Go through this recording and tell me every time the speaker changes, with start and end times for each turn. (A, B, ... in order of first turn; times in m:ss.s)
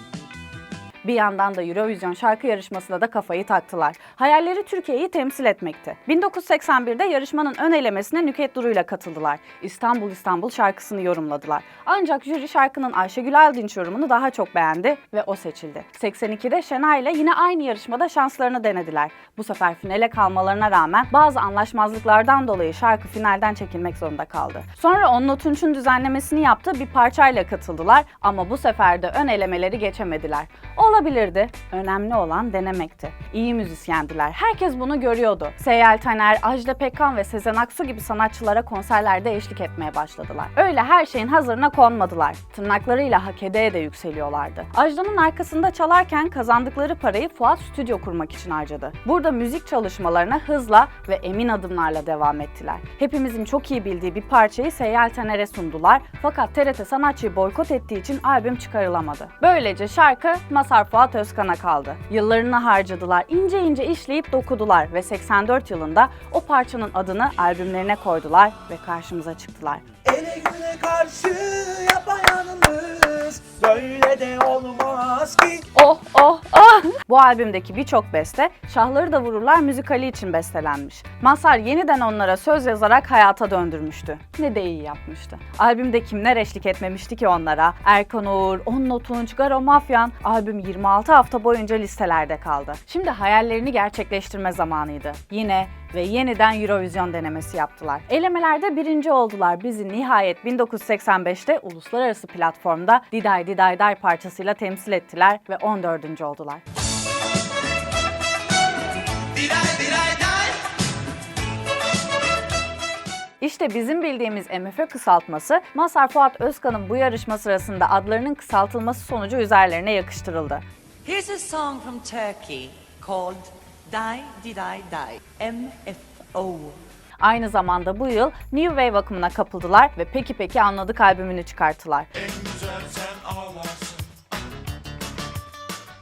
0:01.0-1:09.8 A
1:10.0-1:15.7 B
1:15.7-1:46.6 A
1:49.6-1:50.4 C
1:53.4-2:00.6 A
2:01.0-2:06.8 C
2:07.2-2:12.1 A